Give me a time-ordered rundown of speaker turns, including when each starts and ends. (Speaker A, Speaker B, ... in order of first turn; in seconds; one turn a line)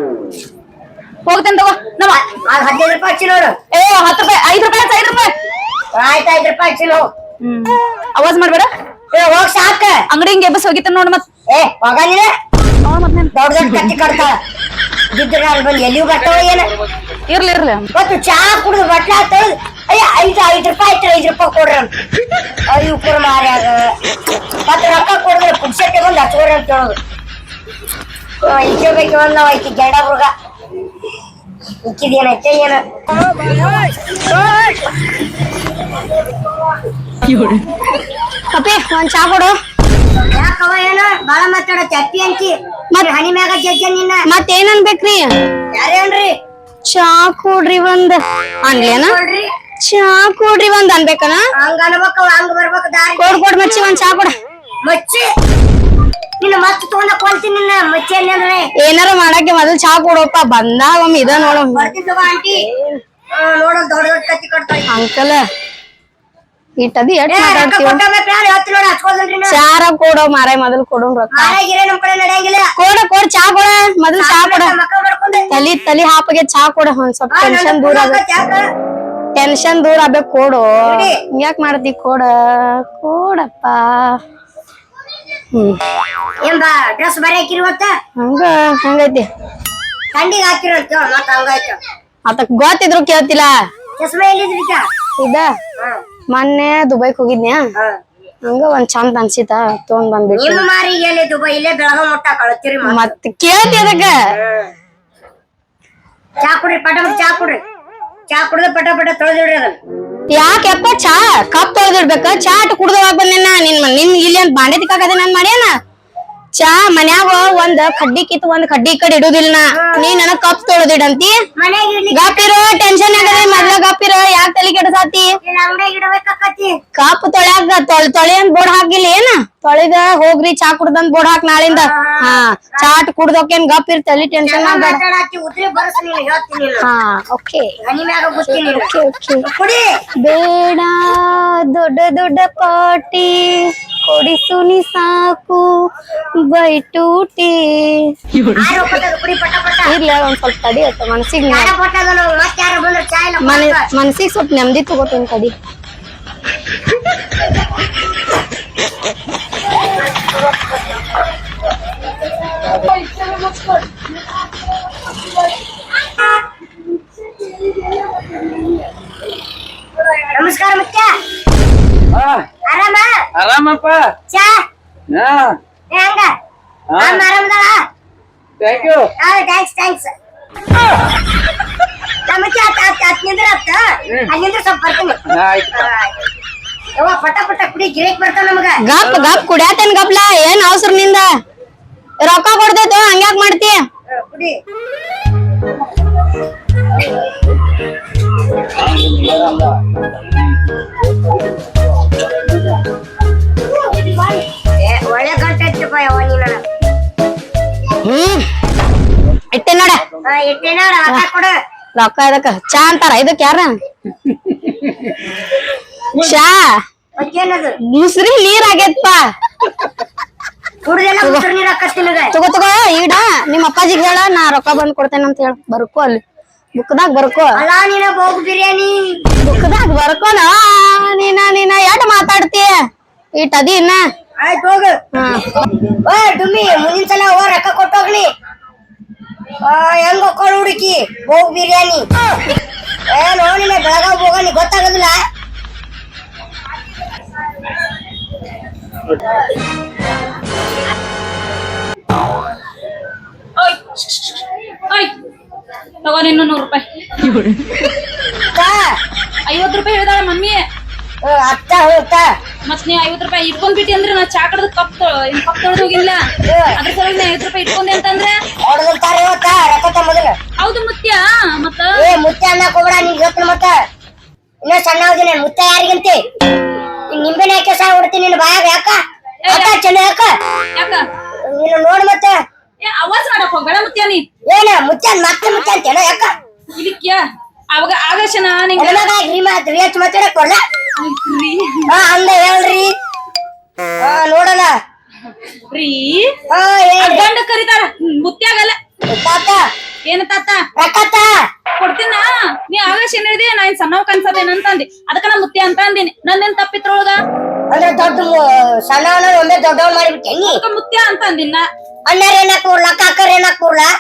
Speaker A: 1.2-2.3
Speaker B: 2.5-3.5
Speaker A: 3.7-5.3
Speaker B: 5.9-7.1
Speaker A: 7.4-8.7
Speaker B: 9.1-10.0
Speaker A: 10.1-11.2
Speaker B: 11.5-12.3
Speaker A: 12.8-13.3
Speaker B: 13.3-14.4
Speaker B: 15.1-16.7
Speaker A: 17.3-17.9
Speaker B: 17.9-21.9
Speaker B: 22.7-23.9
Speaker B: 24.7-27.0
Speaker B: 28.4-30.3
Speaker B: 31.9-32.8
Speaker C: 38.5-39.6
Speaker B: 40.3-44.2
Speaker C: 44.2-45.3
Speaker B: 45.7-46.4
Speaker C: 46.9-49.2
Speaker B: 48.7-49.5
Speaker C: 49.8-51.5
Speaker B: 51.6-53.4
Speaker C: 53.2-54.3
Speaker B: 54.8-55.3
Speaker B: 56.4-58.7
Speaker C: 58.8-61.9
Speaker B: 61.2-62.6
Speaker C: 62.5-63.0
Speaker B: 63.4-64.9
Speaker C: 64.9-65.4
Speaker C: 66.8-68.0
Speaker B: 67.3-69.6
Speaker C: 69.5-71.6
Speaker B: 71.3-72.7
Speaker C: 72.8-74.7
Speaker B: 74.2-75.5
Speaker C: 75.5-78.2
Speaker B: 77.3-78.6
Speaker C: 79.4-84.2
Speaker B: 80.8-81.2
Speaker C: 85.5-85.8
Speaker B: 86.4-87.9
Speaker C: 88.2-89.3
Speaker B: 90.1-91.8
Speaker C: 92.3-93.5
Speaker B: 94.0-94.8
Speaker C: 95.2-95.5
Speaker C: 96.3-97.6
Speaker C: 98.5-100.7
Speaker B: 100.3-103.1
Speaker C: 102.8-104.2
Speaker B: 104.3-104.7
Speaker B: 106.4-107.6
Speaker B: 108.3-109.8
Speaker C: 110.3-115.7
Speaker C: 116.6-121.4
Speaker B: 119.7-120.2
Speaker B: 121.6-122.5
Speaker C: 122.1-125.3
Speaker B: 123.1-123.8
Speaker B: 125.5-126.8
Speaker C: 127.0-135.0
Speaker B: 131.7-133.0
Speaker B: 134.4-136.9
Speaker C: 136.8-137.7
Speaker B: 137.8-139.9
Speaker C: 138.5-139.5
Speaker C: 140.2-145.7
Speaker C: 146.4-148.1
Speaker B: 148.5-149.9
Speaker C: 149.9-151.7
Speaker B: 151.5-153.9
Speaker C: 153.4-155.6
Speaker B: 170.3-171.1
Speaker D: 172.1-172.4
Speaker B: 172.7-173.1
Speaker D: 173.4-174.2
Speaker B: 174.3-174.6
Speaker D: 175.1-175.6
Speaker B: 175.9-176.3
Speaker B: 177.0-177.8
Speaker D: 178.6-179.1
Speaker B: 179.2-180.1
Speaker B: 182.3-186.1
Speaker D: 185.3-185.7
Speaker B: 187.0-188.8
Speaker C: 188.8-191.3
Speaker C: 192.2-193.8
Speaker B: 194.1-194.6
Speaker B: 204.0-206.6
Speaker C: 208.0-208.4
Speaker C: 209.5-210.1
Speaker B: 210.2-211.5
Speaker C: 212.0-213.8
Speaker C: 216.1-216.8
Speaker B: 217.2-217.8
Speaker C: 217.9-219.2
Speaker B: 220.8-222.4
Speaker C: 221.2-221.5
Speaker C: 222.3-226.2
Speaker C: 226.8-227.6
Speaker B: 227.6-229.0
Speaker C: 229.4-232.7
Speaker C: 233.4-234.0
Speaker B: 234.4-235.0
Speaker C: 235.1-235.5
Speaker B: 236.0-238.3
Speaker B: 239.6-242.1
Speaker B: 243.1-245.2
Speaker A: 253.6-255.1
Speaker A: 256.0-257.5
Speaker B: 258.5-258.9
Speaker A: 259.5-260.6
Speaker B: 261.2-262.3
Speaker A: 262.7-266.2
Speaker B: 266.5-266.8
Speaker A: 266.8-268.4
Speaker B: 268.6-270.4
Speaker A: 270.6-272.1
Speaker B: 272.0-273.8
Speaker B: 274.6-276.2
Speaker B: 277.1-280.4
Speaker A: 279.4-279.8
Speaker A: 280.8-281.0
Speaker B: 281.4-282.4
Speaker A: 282.8-284.2
Speaker B: 284.5-286.3
Speaker A: 286.8-289.1
Speaker B: 288.8-290.6
Speaker A: 291.0-291.9
Speaker B: 291.9-292.9
Speaker B: 294.0-294.7
Speaker A: 295.7-296.3
Speaker B: 296.5-297.3
Speaker A: 297.0-298.8
Speaker B: 299.1-299.6
Speaker A: 300.1-300.6
Speaker B: 300.8-301.3
Speaker A: 301.8-307.2
Speaker B: 307.7-310.6
Speaker A: 310.5-311.7
Speaker B: 312.1-313.9